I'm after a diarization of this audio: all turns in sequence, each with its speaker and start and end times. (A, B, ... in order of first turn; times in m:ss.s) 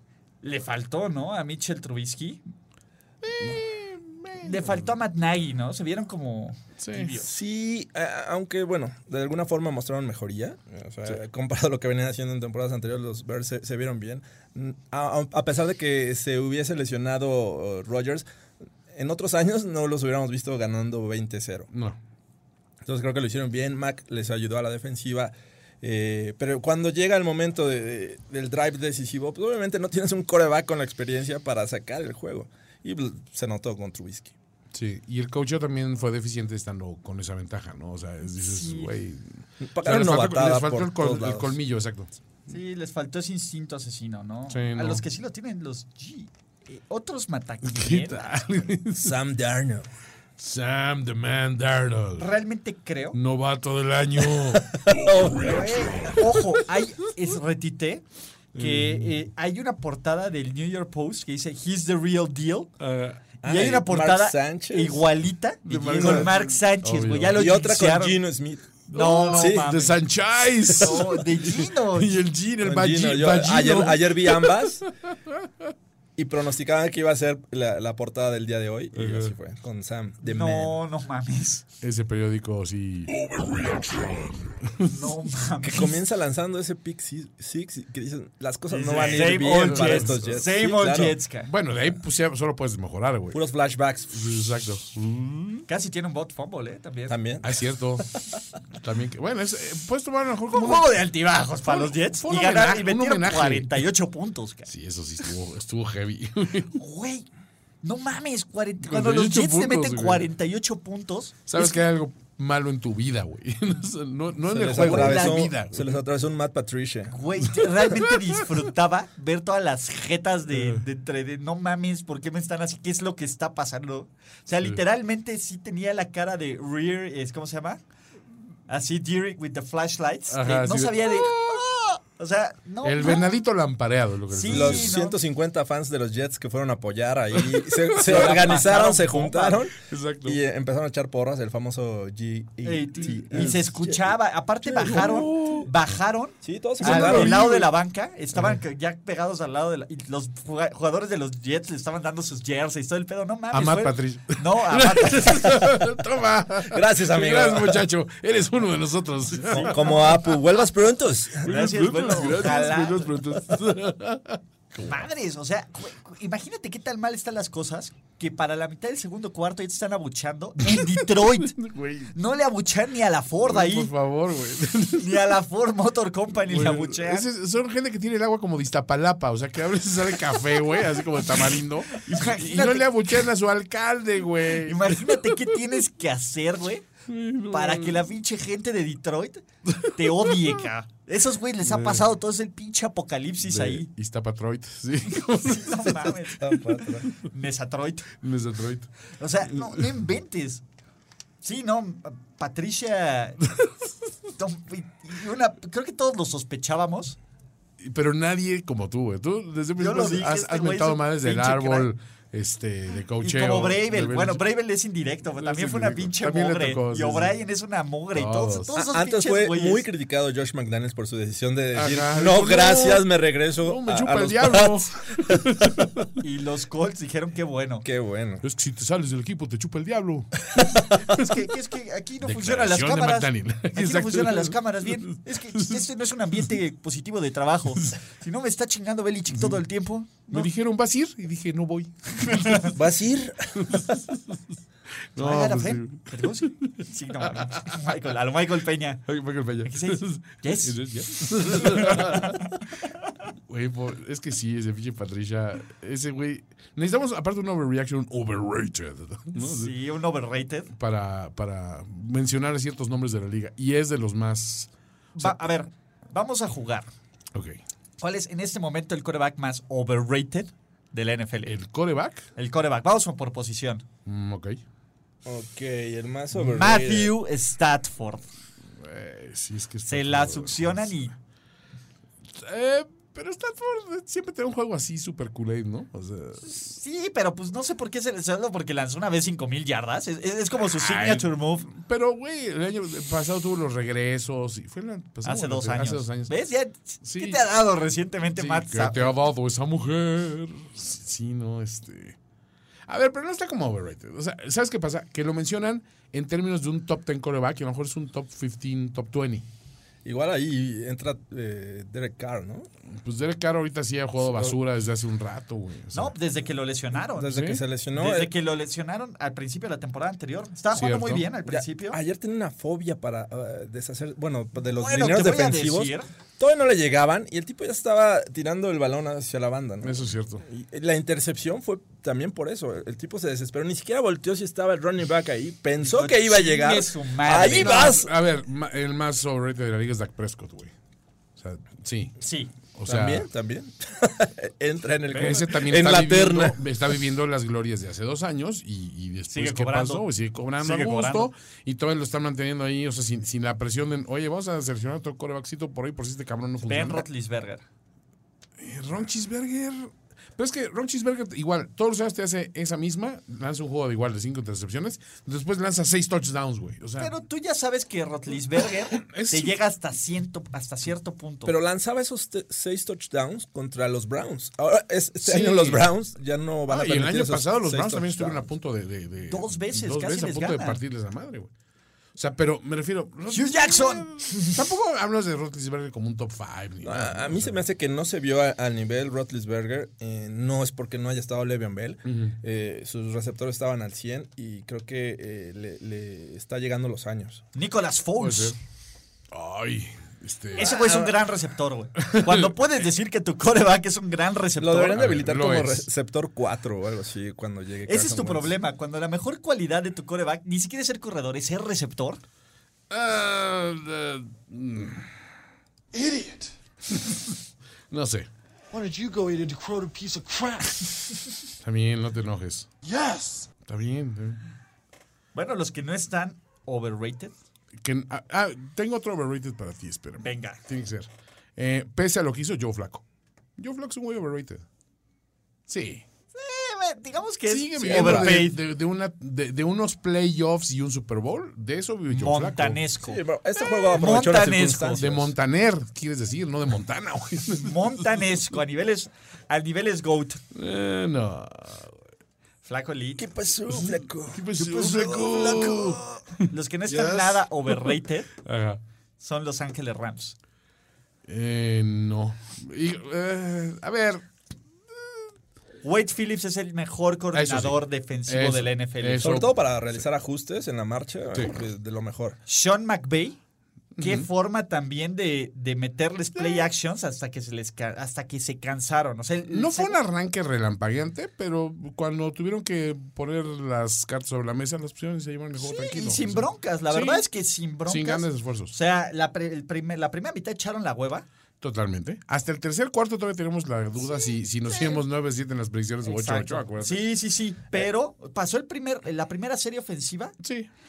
0:00.4-0:02.4 A
0:03.2-0:04.9 B
0:04.4-0:07.3 A
0:06.8-0:07.1 B
0:07.2-0:18.2 C
0:18.9-0:21.7 C
0:21.7-0:22.0 B
0:22.8-0:34.3 C
0:34.7-0:42.1 B
0:38.4-0:38.9 A
0:39.6-0:41.6 C
0:42.5-0:48.4 A
0:44.5-0:45.0 B
0:47.6-0:49.2 B
0:49.0-0:49.9 C
0:50.4-0:52.3 B
0:52.2-0:53.2 A
0:53.1-0:54.8 B
0:54.7-0:56.1 C
0:55.3-0:58.0 A
0:55.6-0:56.5 B
0:58.6-0:59.1 B
0:58.6-1:02.7 A
1:02.8-1:03.2 B
1:03.4-1:05.0 C
1:03.4-1:08.2 A
1:05.7-1:07.4 B
1:05.8-1:06.3 C
1:07.3-1:08.7 C
1:08.9-1:15.3 B
1:08.9-1:10.0 A
1:09.3-1:09.7 C
1:10.7-1:12.2 A
1:12.6-1:14.8 C
1:16.2-1:20.8 C
1:18.9-1:19.3 B
1:20.2-1:21.6 A
1:21.8-1:25.2 B
1:24.9-1:26.0 A
1:25.6-1:31.2 C
1:28.7-1:31.5 A
1:29.1-1:30.4 B
1:31.4-1:33.4 B
1:33.3-1:34.2 C
1:34.1-1:35.7 B
1:35.7-1:37.2 A
1:37.1-1:37.5 C
1:37.4-1:38.1 B
1:38.7-1:41.0 B
1:40.5-1:44.7 A
1:41.6-1:43.8 B
1:44.7-1:46.8 B
1:46.8-1:47.3 A
1:47.8-1:51.8 A
1:48.8-1:50.3 B
1:51.5-1:56.0 B
1:54.4-1:57.2 C
1:54.7-1:55.5 A
1:57.1-2:07.8 A
1:57.6-1:58.1 B
2:00.5-2:00.8 B
2:08.7-2:13.3 A
2:10.3-2:11.7 B
2:12.8-2:15.0 B
2:14.3-2:15.2 A
2:14.5-2:24.1 C
2:17.4-2:18.4 B
2:17.9-2:19.7 A
2:19.9-2:20.4 B
2:22.6-2:35.7 A
2:23.3-2:23.6 B
2:24.6-2:25.6 C
2:24.8-2:25.7 B
2:26.4-2:27.5 C
2:26.8-2:27.7 B
2:33.5-2:40.2 B
2:36.6-2:37.8 C
2:39.5-2:40.3 A
2:39.5-2:41.6 C
2:41.4-2:43.3 A
2:41.4-2:45.0 B
2:44.8-2:51.6 A
2:50.7-2:52.1 B
2:52.1-2:53.9 A
2:53.4-2:55.4 B
2:55.0-2:57.3 A
2:56.4-3:05.6 B
3:01.9-3:03.3 A
3:04.6-3:06.9 A
3:07.1-3:08.1 B
3:07.5-3:13.9 A
3:09.7-3:10.6 B
3:11.6-3:12.1 B
3:13.4-3:16.3 B
3:15.3-3:16.5 A
3:16.4-3:17.1 C
3:16.8-3:17.2 B
3:17.2-3:18.1 A
3:18.2-3:18.9 B
3:19.2-3:20.6 A
3:19.4-3:19.9 B
3:21.4-3:23.4 A
3:24.4-3:27.2 A
3:27.8-3:34.4 B
3:29.8-3:31.9 A
3:33.2-3:39.8 A
3:35.4-3:37.4 B
3:38.1-3:38.7 B
3:38.7-3:45.4 C
3:41.7-3:43.1 B
3:43.6-3:46.2 B
3:46.2-3:47.9 A
3:47.8-3:48.4 C
3:48.4-3:50.5 B
3:50.5-3:51.0 C
3:51.0-4:00.5 A
3:52.2-3:55.9 B
3:59.3-3:59.6 B
4:00.3-4:02.7 B
4:02.2-4:02.7 A
4:02.7-4:03.8 C
4:03.6-4:04.4 B
4:05.1-4:07.9 B
4:05.2-4:09.0 A
4:09.1-4:12.5 B
4:09.6-4:10.8 A
4:11.5-4:12.4 A
4:13.5-4:19.7 B
4:19.4-4:20.7 A
4:20.7-4:25.4 B
4:25.2-4:26.9 A
4:27.3-4:27.6 B
4:28.0-4:31.6 A
4:31.4-4:32.3 B
4:32.4-4:33.8 A
4:34.0-4:34.6 B
4:35.2-4:37.1 C
4:36.4-4:38.3 A
4:38.8-4:41.0 B
4:39.9-4:41.1 A
4:42.4-4:46.4 B
4:46.4-4:51.7 A
4:50.7-4:56.3 B
4:55.2-4:59.1 A
4:57.0-4:57.4 B
4:58.4-5:02.2 B
5:02.9-5:09.4 B
5:10.0-5:12.7 C
5:12.9-5:16.1 B
5:14.2-5:14.6 C
5:15.9-5:22.0 A
5:17.1-5:18.3 C
5:17.3-5:17.6 B
5:20.7-5:21.3 B
5:21.5-5:38.1 C
5:24.8-5:26.1 A
5:29.8-5:30.4 B
5:35.8-5:38.0 A
5:37.3-5:40.7 B
5:41.4-5:42.2 B
5:42.2-5:42.5 A
5:42.7-5:43.3 B
5:42.9-5:46.6 C
5:45.1-5:57.1 B
5:49.3-5:50.0 A
5:50.6-5:51.3 A
5:56.6-5:57.6 A
5:58.6-6:07.1 B
6:07.0-6:11.5 A
6:08.9-6:09.6 B
6:11.4-6:18.4 C
6:15.2-6:15.8 B
6:16.7-6:21.5 B
6:19.3-6:20.8 A
6:22.2-6:27.6 B
6:23.3-6:24.7 A
6:26.8-6:37.4 C
6:32.0-6:32.4 B
6:37.6-6:38.6 A
6:38.2-6:38.6 B
6:39.3-6:40.8 B
6:40.6-6:45.1 A
6:40.6-6:41.1 C
6:42.0-6:42.4 B
6:44.6-6:48.5 C
6:44.9-6:45.9 B
6:47.9-6:52.2 A
6:52.9-6:55.1 B
6:55.9-6:56.5 D
6:57.9-6:58.3 B
6:58.7-7:01.4 D
7:01.6-7:02.7 B
7:02.8-7:03.5 D
7:03.6-7:04.4 B
7:05.3-7:07.3 A
7:07.8-7:13.0 B
7:10.2-7:10.6 A
7:13.6-7:14.6 B
7:15.7-7:16.0 B
7:16.3-7:18.6 A
7:17.5-7:22.8 B
7:17.8-7:18.4 C
7:22.1-7:25.0 A
7:23.0-7:25.3 C
7:25.0-7:28.3 B
7:27.6-7:30.4 A
7:30.5-7:32.0 B
7:32.6-7:33.3 A
7:33.2-7:36.2 C
7:33.7-7:38.8 B
7:36.5-7:38.3 A
7:39.2-7:40.3 A
7:41.3-7:44.2 B
7:45.8-7:49.4 A
7:47.3-7:50.0 B
7:49.2-7:52.4 C
7:52.5-7:53.4 A
7:54.0-7:54.3 B
7:54.0-8:00.0 A
7:56.4-7:56.7 B
7:59.5-8:07.2 B
8:05.6-8:11.3 A
8:07.9-8:08.7 B
8:11.6-8:17.1 B
8:14.1-8:15.0 A
8:16.0-8:20.3 A
8:20.4-8:20.7 B